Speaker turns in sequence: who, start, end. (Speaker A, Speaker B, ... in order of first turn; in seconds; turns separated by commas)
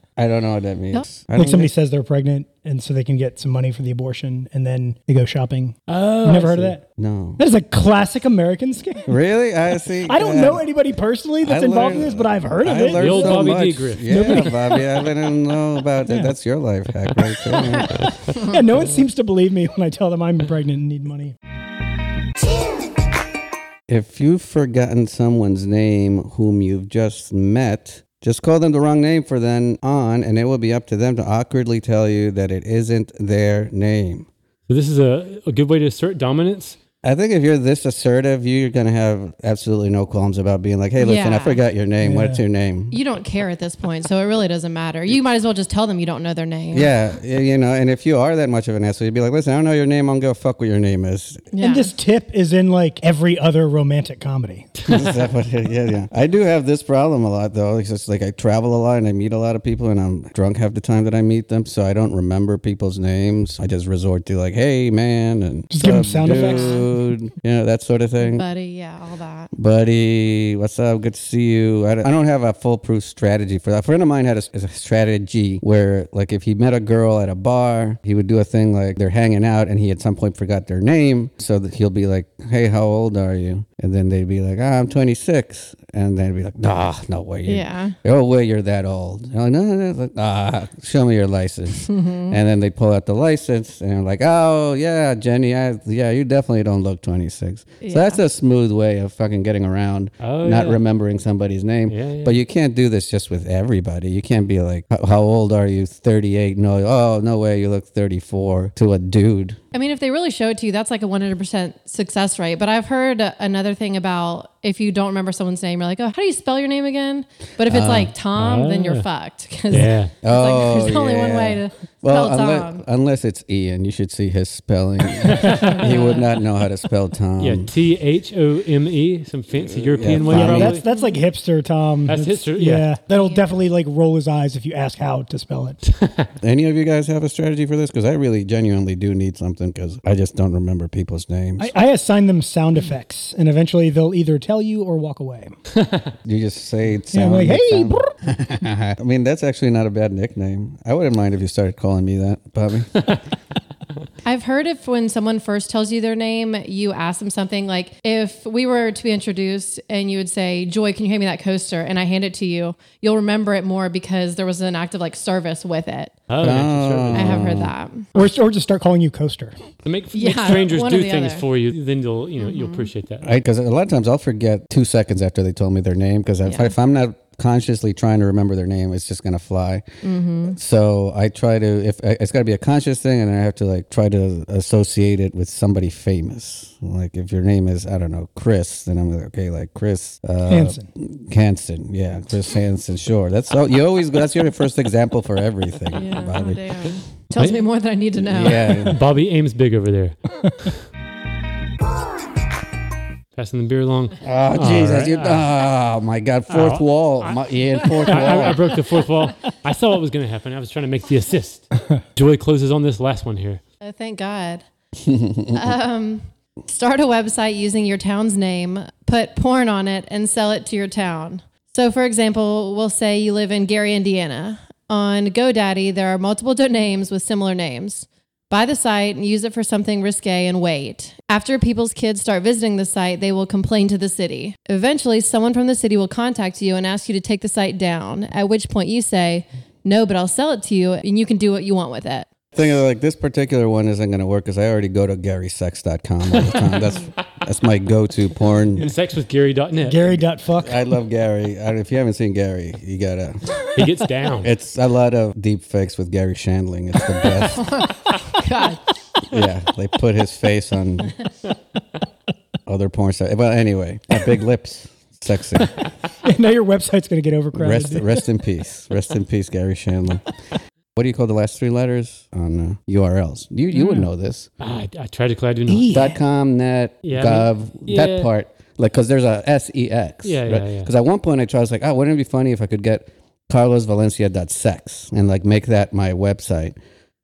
Speaker A: 0.2-1.7, Speaker B: 1.4-6.8, Speaker C: 5.9-6.7, Speaker A: 6.9-7.4, Speaker B: 7.4-9.1, Speaker A: 9.1-10.6, Speaker B: 10.1-14.6, Speaker A: 11.4-18.1, Speaker C: 12.9-14.5, Speaker B: 18.3-21.4, Speaker A: 23.9-34.3, Speaker C: 34.7-36.8, Speaker A: 37.0-43.0, Speaker D: 41.0-41.6, Speaker B: 42.0-42.4, Speaker D: 42.9-46.9, Speaker A: 46.7-51.5, Speaker D: 51.5-51.9, Speaker B: 51.6-54.7, Speaker A: 54.9-68.5, Speaker B: 65.7-66.8, Speaker D: 68.2-69.5, Speaker A: 69.5-109.6, Speaker D: 87.5-88.0, Speaker D: 91.9-92.4, Speaker D: 97.8-98.2, Speaker C: 100.2-100.8, Speaker C: 101.9-102.4, Speaker D: 109.7-122.8, Speaker A: 117.6-118.1, Speaker C: 118.3-119.1, Speaker C: 119.7-120.1, Speaker A: 120.2-127.7, Speaker C: 125.3-126.0, Speaker D: 125.5-126.4, Speaker C: 127.4-130.8, Speaker A: 129.6-130.8, Speaker B: 130.1-135.8, Speaker D: 130.9-131.1, Speaker C: 132.1-132.9, Speaker D: 133.1-133.4, Speaker C: 135.9-136.3, Speaker A: 136.4-141.7, Speaker B: 141.6-145.6, Speaker A: 146.2-153.2, Speaker B: 147.1-148.1, Speaker D: 154.2-166.2, Speaker C: 166.3-167.5, Speaker A: 166.4-167.7, Speaker D: 167.1-168.1, Speaker B: 168.2-169.6, Speaker C: 169.8-173.3, Speaker D: 170.1-171.4, Speaker D: 172.4-172.9, Speaker A: 173.2-179.9, Speaker D: 176.5-176.7, Speaker D: 180.0-180.6, Speaker A: 180.5-196.6, Speaker B: 190.5-190.9, Speaker D: 195.9-198.9, Speaker C: 197.4-197.6, Speaker A: 198.2-199.0, Speaker C: 198.8-200.7, Speaker C: 203.4-205.5, Speaker A: 204.2-208.8, Speaker C: 206.5-213.6, Speaker D: 213.8-214.7, Speaker A: 215.0-215.6, Speaker D: 215.5-242.3, Speaker A: 242.5-248.9, Speaker C: 248.8-250.2, Speaker B: 249.8-250.9, Speaker A: 250.6-253.6, Speaker C: 253.7-254.5, Speaker A: 254.4-257.8, Speaker D: 257.6-258.8, Speaker A: 259.2-261.2, Speaker A: 262.7-265.9, Speaker B: 266.2-268.2, Speaker A: 267.6-270.4, Speaker A: 270.9-274.5, Speaker C: 274.6-276.0, Speaker B: 275.7-276.2, Speaker A: 275.9-286.8, Speaker C: 277.0-278.3, Speaker C: 280.2-280.9